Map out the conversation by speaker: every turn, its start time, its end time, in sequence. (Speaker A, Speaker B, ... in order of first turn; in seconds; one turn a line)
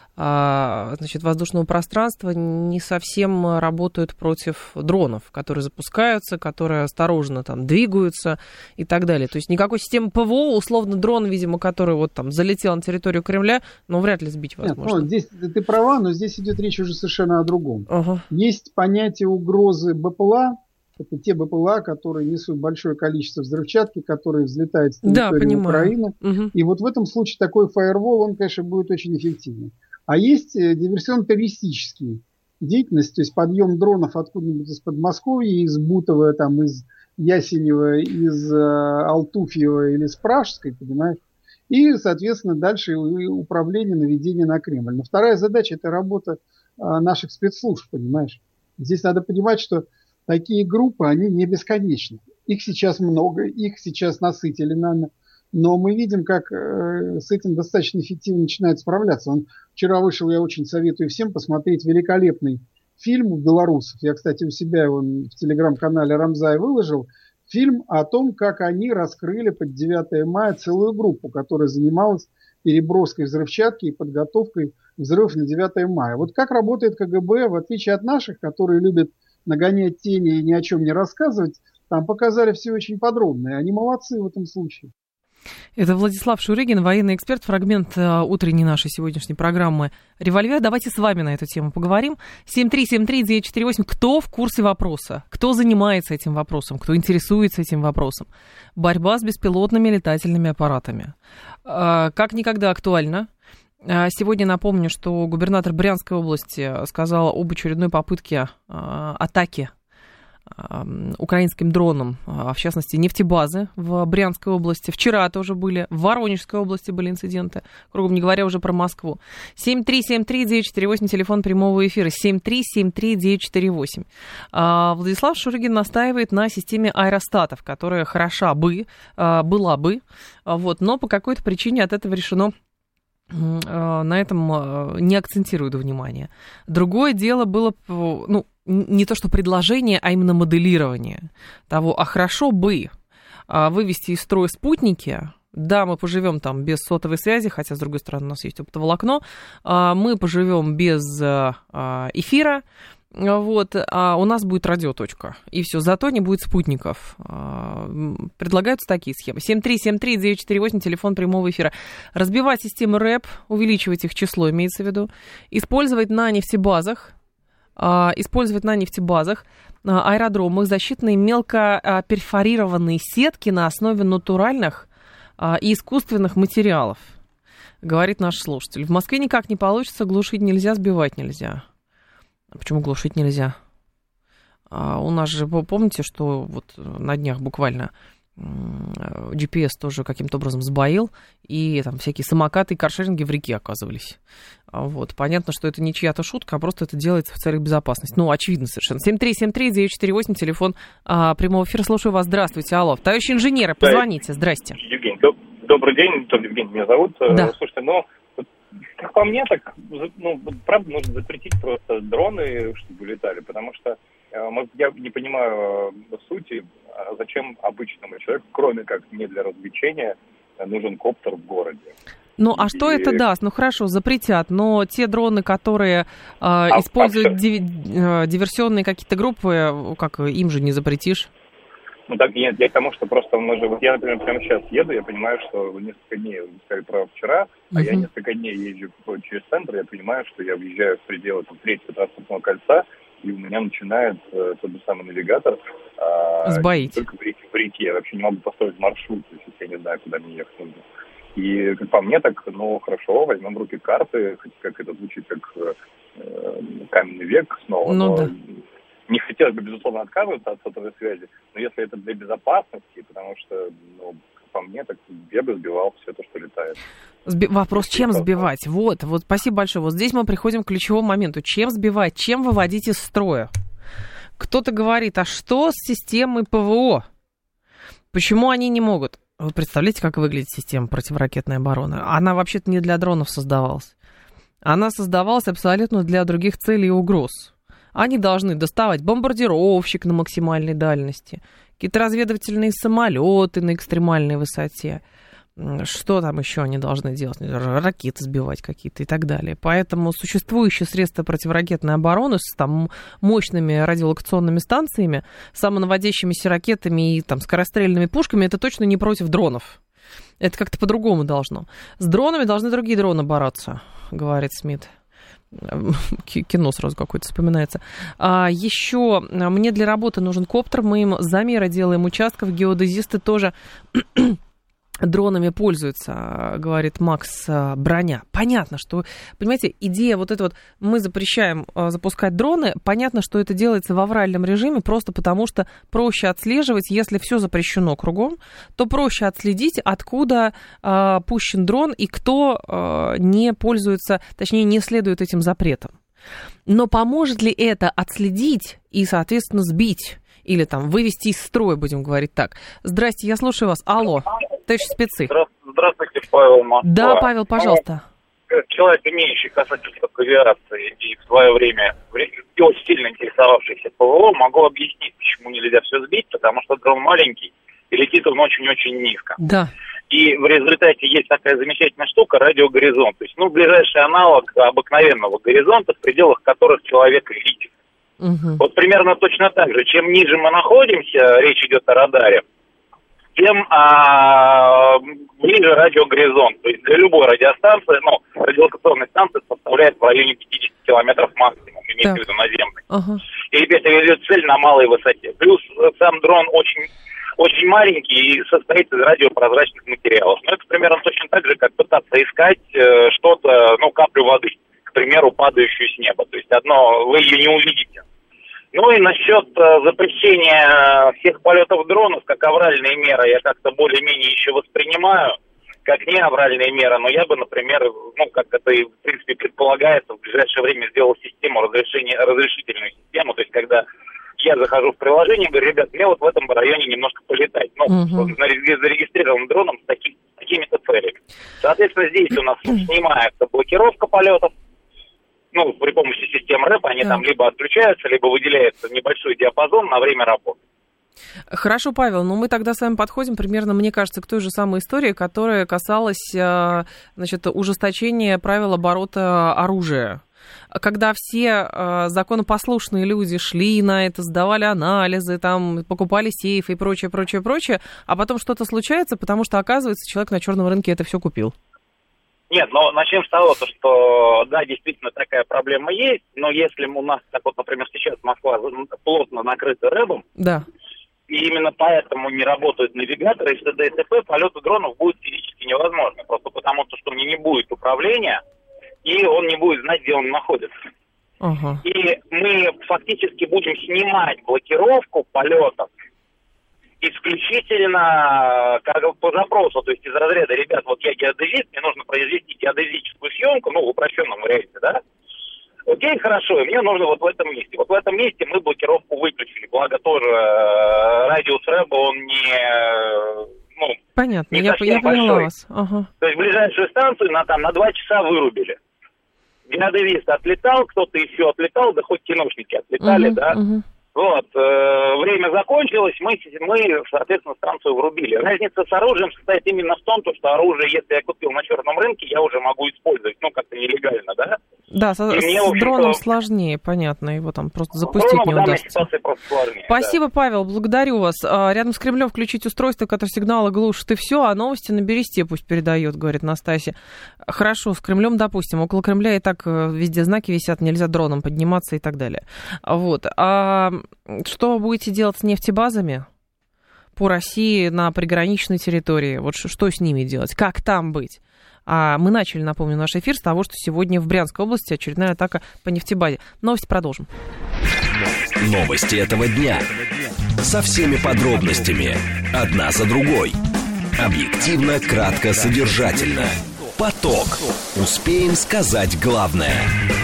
Speaker A: 0.2-15.1
Speaker B: 14.6-41.2
Speaker A: 17.9-18.3
Speaker A: 25.0-26.5
Speaker B: 41.7-84.9
Speaker A: 85.8-101.1
Speaker A: 101.7-103.3
Speaker A: 103.8-109.7
Speaker A: 110.5-132.5
Speaker A: 133.3-142.9
Speaker A: 143.5-152.6
Speaker A: 153.2-167.1
Speaker A: 167.8-174.9
Speaker A: 175.4-177.1
Speaker A: 177.8-181.6
Speaker A: 182.5-183.6
Speaker A: 184.7-194.2
Speaker A: 194.7-204.8
Speaker C: 204.8-208.5
Speaker C: 209.0-221.9
Speaker A: 222.4-231.3
Speaker C: 222.5-223.2
Speaker C: 226.7-227.4
Speaker C: 232.1-250.8
Speaker A: 237.8-238.0
Speaker A: 246.4-247.0
Speaker C: 251.4-266.8
Speaker A: 257.9-258.3
Speaker A: 267.3-273.5
Speaker C: 267.7-268.5
Speaker A: 274.4-277.1
Speaker A: 278.1-283.9
Speaker A: 284.6-295.0
Speaker A: 295.6-309.8
Speaker A: 310.4-314.9
Speaker A: 315.6-324.4
Speaker A: 325.0-345.9
Speaker A: 346.7-355.3
Speaker D: 355.3-357.8
Speaker A: 356.8-358.1
Speaker D: 358.5-369.4
Speaker A: 369.4-369.7
Speaker D: 370.1-377.7
Speaker A: 378.2-378.6
Speaker D: 378.6-382.4
Speaker D: 383.4-392.8
Speaker A: 392.9-393.2
Speaker D: 393.5-408.0
Speaker D: 408.7-423.9
Speaker D: 424.4-434.5
Speaker A: 427.9-428.3
Speaker D: 435.5-440.6
Speaker A: 441.5-461.6
Speaker D: 462.5-470.2
Speaker A: 470.4-470.6
Speaker D: 471.3-478.4
Speaker D: 479.0-480.7
Speaker A: 481.4-481.8
Speaker D: 481.8-485.9
Speaker D: 487.0-495.0
Speaker D: 495.9-504.0
Speaker A: 504.2-506.1
Speaker D: 504.5-505.5
Speaker D: 506.2-508.8
Speaker D: 509.7-513.6
Speaker A: 513.0-513.8
Speaker D: 514.1-524.6
Speaker A: 524.9-529.0
Speaker D: 525.3-526.2
Speaker D: 528.0-530.2
Speaker A: 529.9-546.3
Speaker A: 547.2-557.3
Speaker E: 558.6-559.9
Speaker E: 560.6-563.6
Speaker E: 564.2-569.9